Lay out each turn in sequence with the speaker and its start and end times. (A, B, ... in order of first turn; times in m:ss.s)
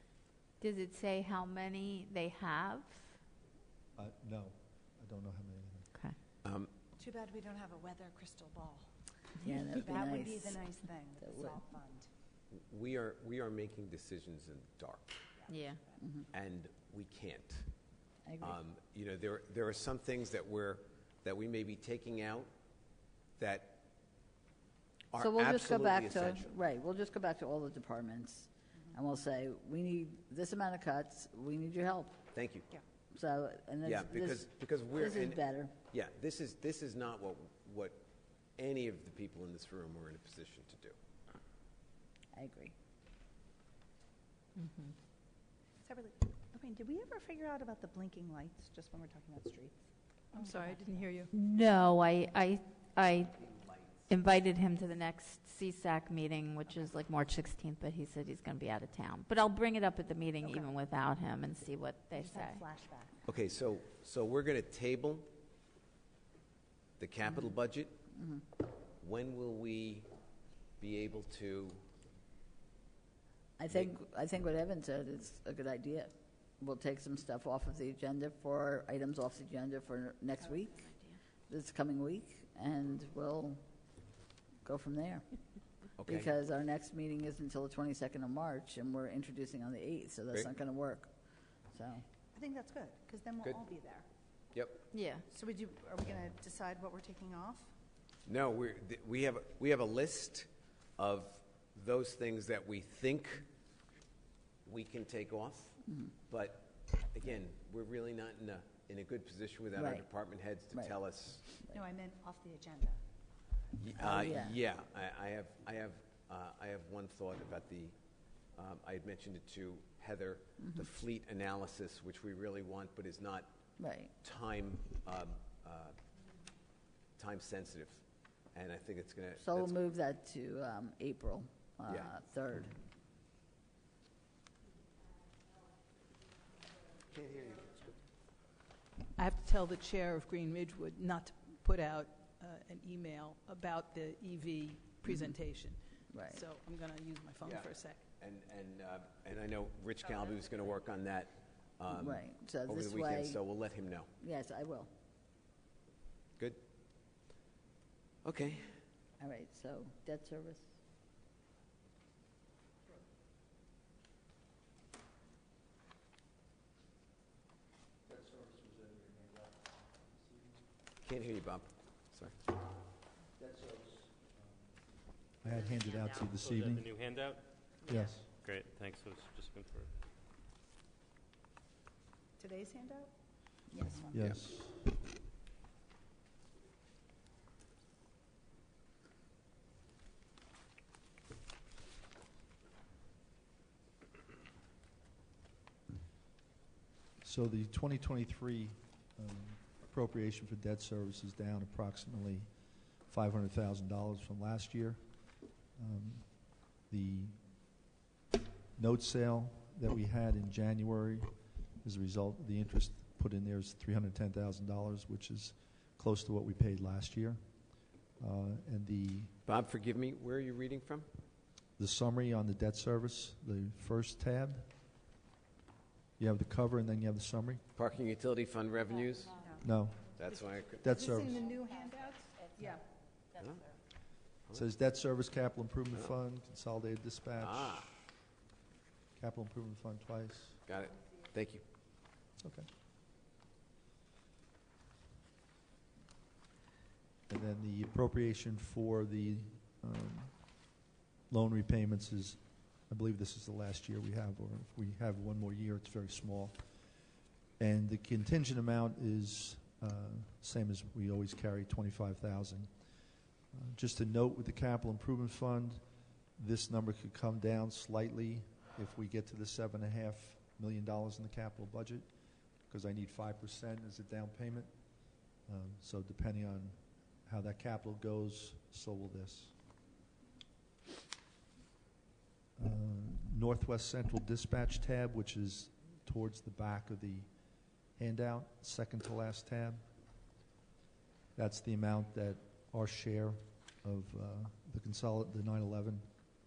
0:00.6-0:03.1 A
0:04.0-0:05.9 B
0:06.4-0:06.7 C
0:07.0-0:08.9 D
0:09.4-0:10.6 E
0:09.8-0:12.1 D
0:11.2-0:11.6 E
0:12.5-0:15.2 C
0:15.4-0:16.0 D
0:15.5-0:15.8 A
0:16.0-0:16.3 E
0:16.3-0:17.7 C
0:18.2-0:18.6 E
0:18.4-0:22.5 C
0:23.4-0:23.8 C
0:25.1-0:26.5 C
0:25.2-0:32.2 E
0:32.3-0:32.7 C
0:33.1-0:35.7 E
0:33.8-0:38.0 C
0:38.6-0:41.0 C
0:42.3-0:42.7 E
0:44.6-0:45.0 A
0:45.8-0:51.1 D
0:50.3-0:51.3 F
0:51.3-1:02.6 A
0:53.4-0:54.1 C
1:00.4-1:00.7 D
1:02.1-1:03.3 D
1:03.3-1:05.3 C
1:07.0-1:08.0 C
1:08.1-1:08.4 E
1:09.0-1:10.1 C
1:10.8-1:11.8 C
1:13.6-1:20.9 E
1:20.8-1:21.2 A
1:21.5-1:23.6 E
1:24.6-1:25.3 E
1:26.0-1:26.3 C
1:26.0-1:31.1 E
1:31.7-1:32.0 E
1:32.3-1:34.1 D
1:34.5-1:34.8 C
1:34.9-1:35.2 A
1:35.3-1:37.7 D
1:38.3-1:43.5 C
1:44.6-1:51.5 C
1:45.9-1:46.1 E
1:49.8-1:50.0 E
1:51.7-1:53.0 D
1:53.8-1:58.0 C
1:54.0-1:54.6 E
1:58.6-2:03.6 C
2:00.6-2:00.8 E
2:03.8-2:04.1 E
2:04.2-2:06.0 C
2:07.2-2:09.8 C
2:09.4-2:12.8 E
2:17.1-2:17.8 C
2:19.2-2:28.0 F
2:26.1-2:26.4 E
2:27.4-2:34.1 C
2:31.9-2:33.4 E
2:34.2-2:34.9 E
2:38.2-2:38.8 C
2:39.2-2:40.7 E
2:48.1-2:50.5 B
2:51.0-2:52.4 C
2:53.4-2:54.4 B
2:55.4-2:56.8 B
2:55.5-2:55.8 A
2:56.2-2:59.9 G
2:57.9-2:58.2 B
3:02.4-3:03.1 D
3:03.7-3:04.2 D
3:04.1-3:04.8 B
3:17.2-3:22.5 B
3:23.0-3:25.1 B
3:25.8-3:27.4 B
3:28.8-3:37.4 B
3:38.2-3:39.3 B
3:39.5-3:41.1 C
3:41.8-3:44.7 B
3:46.2-3:47.6 B
3:47.8-3:49.4 C
3:49.4-3:49.6 D
3:49.6-3:50.1 B
3:50.2-3:50.8 C
3:50.8-3:51.4 B
3:50.8-3:52.5 D
3:52.6-3:52.8 F
3:53.4-3:53.7 C
3:54.5-3:57.9 B
3:57.4-3:57.9 C
3:59.2-4:00.6 B
4:00.7-4:01.6 C
4:02.4-4:02.7 B
4:07.3-4:10.4 B
4:11.3-4:16.6 B
4:17.6-4:22.7 B
4:23.5-4:25.8 B
4:26.4-4:32.1 B
4:32.7-4:34.7 B
4:35.4-4:39.5 B
4:42.6-4:47.3 B
4:48.0-4:49.8 B
4:51.4-4:56.1 B